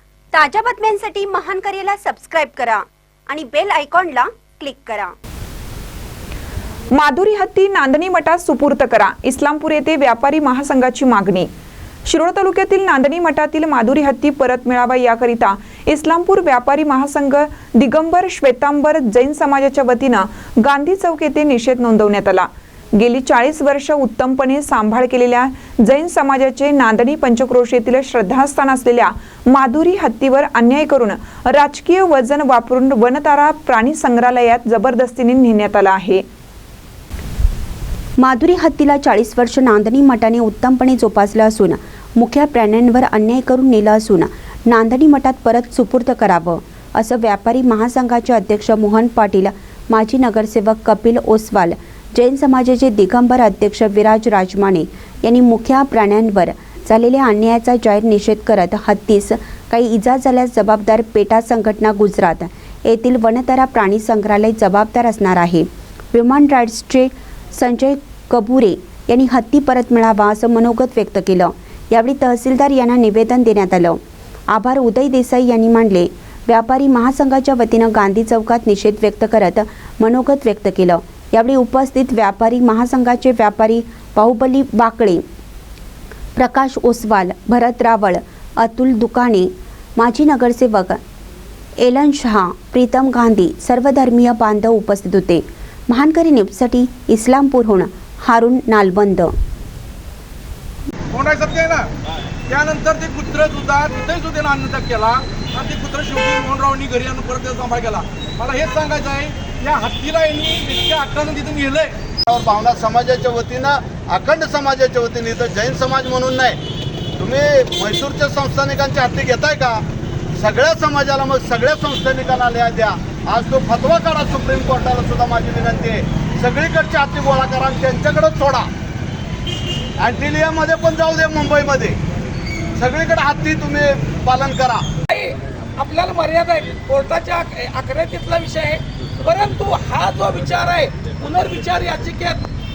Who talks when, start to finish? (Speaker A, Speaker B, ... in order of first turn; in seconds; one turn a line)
Speaker A: 0.3-5.1
Speaker B: 6.9-11.5
Speaker B: 12.1-36.2
Speaker A: 38.2-74.0
Speaker A: 74.5-85.2
Speaker A: 86.4-91.0
Speaker A: 91.8-99.3
Speaker C: 101.1-101.9
Speaker C: 102.5-111.9
Speaker D: 112.3-116.6
Speaker D: 117.2-119.8
Speaker D: 120.4-128.7
Speaker D: 130.0-132.0
Speaker D: 132.8-134.8
Speaker E: 135.1-142.4